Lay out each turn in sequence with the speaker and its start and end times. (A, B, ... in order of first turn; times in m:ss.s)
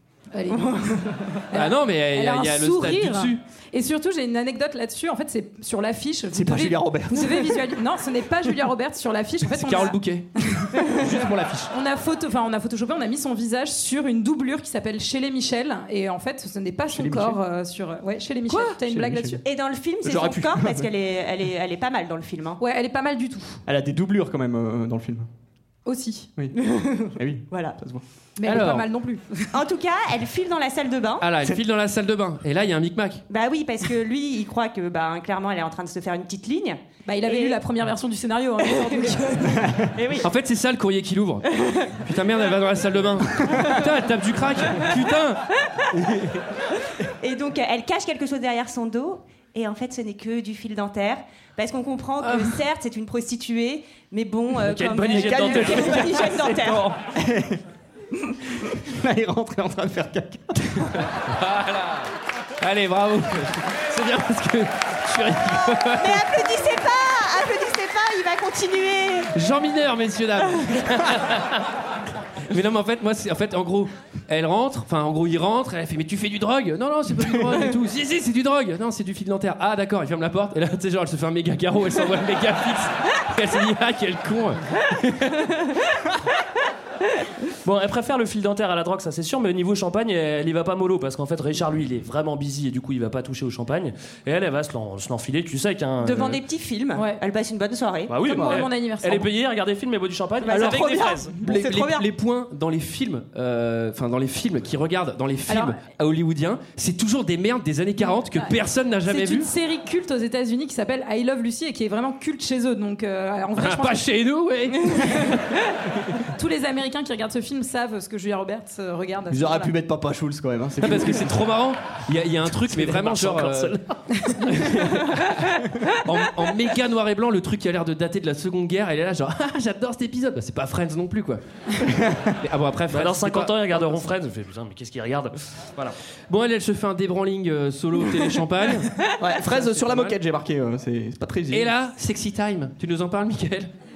0:00.3-0:10.0 A
0:01.5-0:03.4 B
0:06.3-0:07.7 C
0:09.5-0:10.3 B
0:10.5-0:10.9 A
0:10.9-0:11.7 B
0:11.7-0:19.4 A
0:16.9-0:17.4 C
0:18.5-0:19.4 C
0:19.4-0:22.6 D
0:20.0-0:20.9 C
0:22.6-0:23.6 A
0:23.7-0:25.3 C
0:25.8-0:26.3 A
0:26.6-0:27.8 D
0:27.2-0:28.0 C
0:28.4-0:29.6 A
0:28.4-0:28.9 B
0:29.5-0:31.3 D
0:31.2-0:33.2 B
0:33.3-0:37.6 D
0:37.0-0:39.8 A
0:38.7-0:39.1 D
0:40.0-0:40.3 D
0:40.2-0:46.3 B
0:47.2-0:56.9 D
0:52.2-0:52.5 B
0:54.6-0:56.8 E
0:55.0-0:56.1 C
0:57.1-0:57.6 C
0:58.6-1:01.1 C
1:01.1-1:06.3 B
1:05.9-1:09.3 D
1:09.3-1:11.6 B
1:12.5-1:25.5 B
1:27.6-1:36.4 E
1:36.0-1:38.2 D
1:36.9-1:37.2 A
1:38.1-1:41.3 E
1:38.3-1:39.3 A
1:38.3-1:38.6 C
1:40.4-1:42.1 D
1:40.6-1:49.5 B
1:45.5-1:45.8 A
1:48.3-1:54.0 A
1:53.6-1:55.2 B
1:55.1-1:55.4 A
1:56.3-1:59.7 A
1:59.3-2:01.3 C
2:00.8-2:03.8 B
2:02.5-2:04.0 E
2:04.5-2:11.4 B
2:11.9-2:12.3 C
2:12.4-2:14.1 B
2:12.9-2:16.0 E
2:16.3-2:20.2 B
2:19.2-2:21.7 C
2:21.5-2:23.7 B